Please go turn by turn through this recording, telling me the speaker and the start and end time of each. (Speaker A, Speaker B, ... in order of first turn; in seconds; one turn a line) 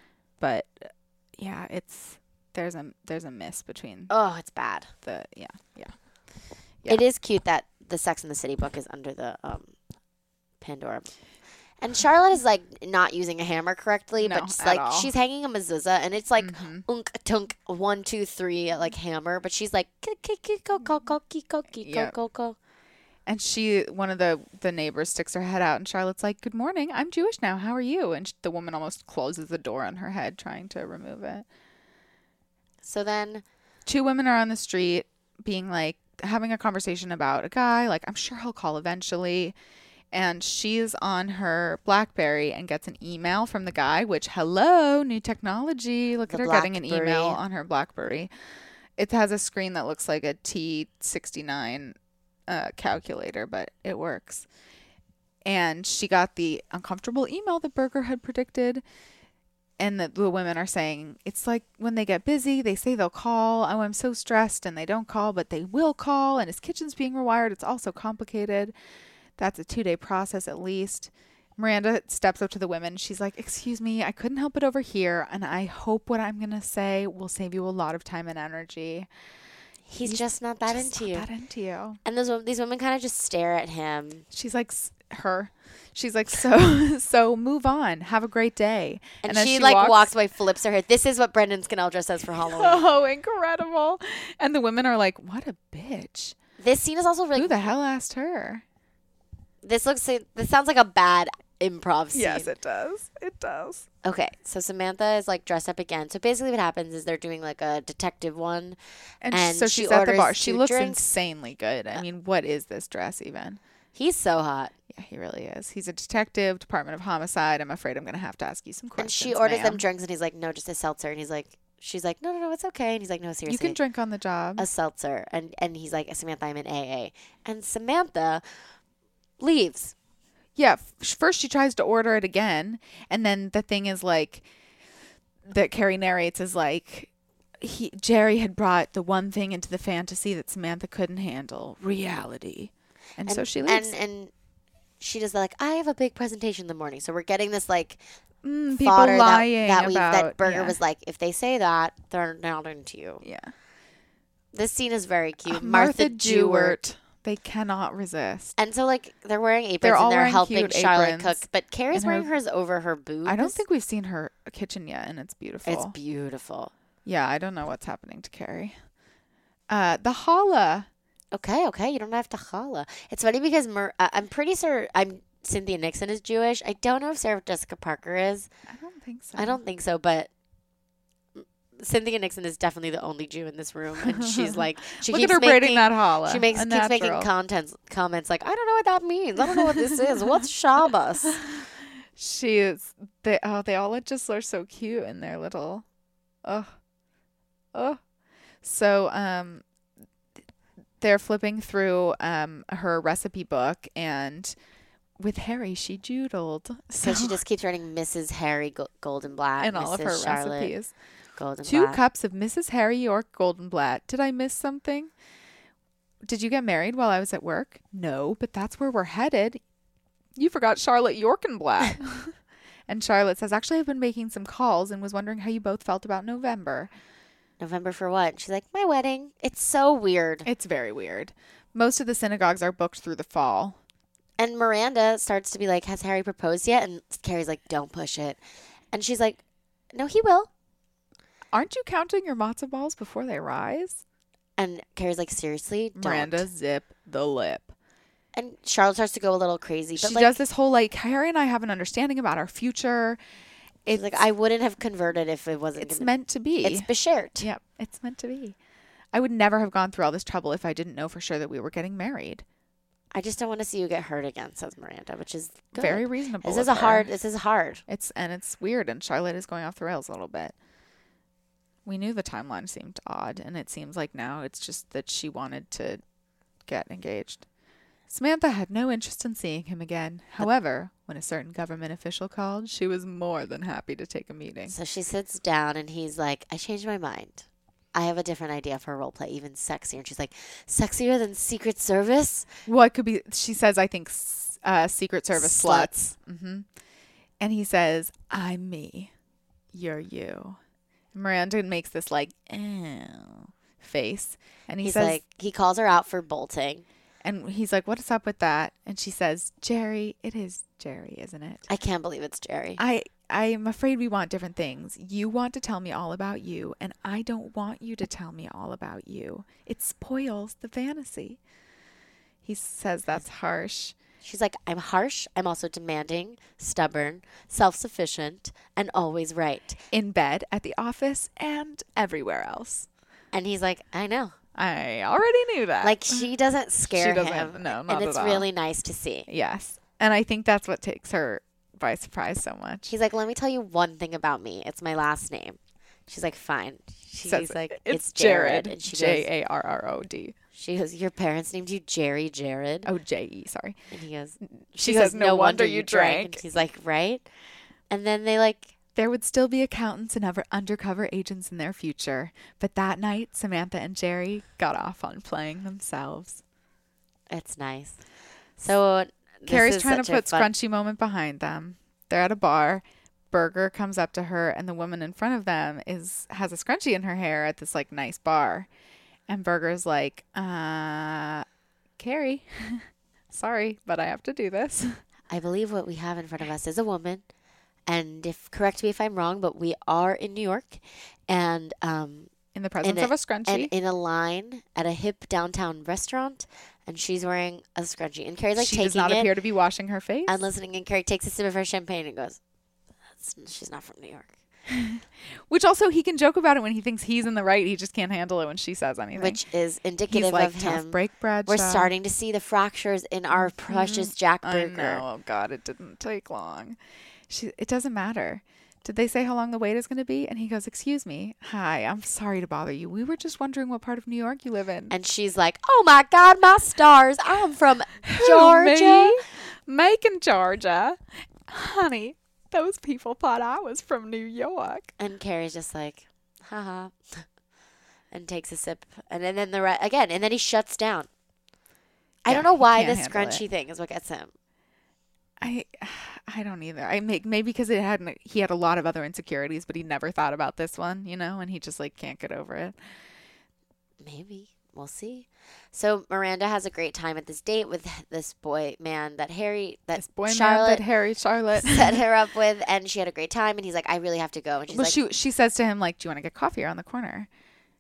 Speaker A: 0.4-4.1
Speaker B: 4.1-4.9
Speaker A: 5.0-5.9
Speaker B: 6.9-9.7
Speaker B: 10.6-11.1
Speaker B: 11.8-22.6
Speaker A: 14.2-15.1
Speaker A: 16.4-16.9
Speaker A: 21.8-22.1
Speaker A: 23.3-31.5
Speaker B: 32.8-33.4
Speaker A: 33.9-39.6
Speaker A: 40.1-48.3
Speaker B: 46.3-47.4
Speaker A: 49.0-52.0
Speaker A: 52.5-54.5
Speaker A: 55.5-58.8
Speaker A: 59.8-68.7
Speaker A: 69.4-79.1
Speaker B: 79.9-81.3
Speaker A: 80.0-82.0
Speaker B: 82.0-84.3
Speaker A: 84.3-90.1
Speaker B: 89.2-92.8
Speaker A: 92.4-96.4
Speaker B: 96.6-97.7
Speaker A: 97.4-98.6
Speaker B: 99.6-102.5
Speaker A: 102.1-103.9
Speaker B: 104.0-108.8
Speaker A: 109.2-113.6
Speaker B: 109.3-111.1
Speaker B: 114.0-114.7
Speaker A: 114.9-119.8
Speaker B: 119.0-123.8
Speaker A: 123.5-124.7
Speaker B: 124.6-128.4
Speaker B: 129.4-129.9
Speaker A: 130.6-134.5
Speaker A: 135.4-143.9
Speaker B: 143.3-144.3
Speaker B: 145.0-148.0
Speaker A: 148.4-150.8
Speaker B: 148.7-153.2
Speaker A: 153.2-153.5
Speaker B: 154.5-156.8
Speaker A: 155.5-158.5
Speaker B: 158.6-163.6
Speaker A: 159.8-162.3
Speaker A: 163.3-165.9
Speaker B: 165.7-166.7
Speaker A: 167.1-168.8
Speaker A: 169.7-170.9
Speaker B: 171.3-178.5
Speaker A: 178.7-179.6
Speaker B: 179.4-180.3
Speaker B: 181.4-191.4
Speaker A: 184.0-187.3
Speaker A: 191.3-195.8
Speaker A: 196.4-196.7
Speaker A: 197.7-198.0
Speaker A: 198.6-199.6
Speaker A: 201.0-204.5
Speaker A: 205.2-207.4
Speaker B: 207.0-210.7
Speaker A: 209.6-210.9
Speaker B: 211.4-212.0
Speaker A: 211.6-215.1
Speaker A: 216.2-219.6
Speaker A: 220.4-222.4
Speaker A: 222.9-226.9
Speaker B: 227.6-230.5
Speaker A: 230.5-233.8
Speaker B: 234.4-238.4
Speaker B: 238.9-239.4
Speaker B: 239.9-240.5
Speaker A: 241.5-244.0
Speaker B: 244.6-246.5
Speaker A: 246.0-247.7
Speaker B: 248.3-250.4
Speaker A: 250.0-253.2
Speaker A: 253.9-254.2
Speaker B: 253.9-257.5
Speaker A: 255.8-258.6
Speaker A: 259.1-262.4
Speaker B: 263.1-267.8
Speaker A: 265.7-267.1
Speaker A: 267.9-270.6
Speaker A: 271.9-276.0
Speaker A: 276.7-277.4
Speaker A: 278.1-284.8
Speaker B: 284.7-292.5
Speaker A: 292.7-296.7
Speaker B: 295.3-295.9
Speaker A: 297.4-299.1
Speaker A: 299.7-300.6
Speaker A: 301.1-305.2
Speaker B: 304.8-306.9
Speaker A: 307.2-311.7
Speaker B: 311.7-312.8
Speaker A: 312.8-321.4
Speaker A: 322.4-324.0
Speaker B: 324.2-329.8
Speaker A: 329.9-332.9
Speaker B: 333.3-334.4
Speaker A: 334.6-336.3
Speaker B: 335.8-339.3
Speaker A: 336.9-338.5
Speaker A: 339.3-342.9
Speaker B: 342.9-349.3
Speaker A: 347.3-350.4
Speaker B: 350.5-352.9
Speaker A: 352.9-353.8
Speaker B: 353.9-357.3
Speaker A: 354.7-356.4
Speaker B: 357.9-358.7
Speaker A: 359.0-366.4
Speaker B: 367.3-368.0
Speaker B: 368.6-370.5
Speaker A: 369.5-378.7
Speaker A: 379.3-381.5
Speaker A: 382.0-385.0
Speaker B: 385.3-387.2
Speaker B: 387.9-392.3
Speaker A: 392.5-393.7
Speaker B: 392.8-399.3
Speaker A: 398.6-400.4
Speaker B: 400.3-402.4
Speaker B: 403.2-404.4
Speaker A: 404.7-409.4
Speaker B: 409.1-415.0
Speaker A: 410.1-411.9
Speaker A: 413.3-416.8
Speaker A: 417.3-424.9
Speaker B: 424.9-429.2
Speaker A: 428.0-434.9
Speaker B: 435.0-437.3
Speaker B: 438.1-441.1
Speaker B: 442.2-444.3
Speaker A: 442.3-443.4
Speaker A: 445.4-452.8
Speaker B: 454.0-460.9
Speaker A: 460.0-462.0
Speaker B: 461.6-465.0
Speaker A: 464.7-467.3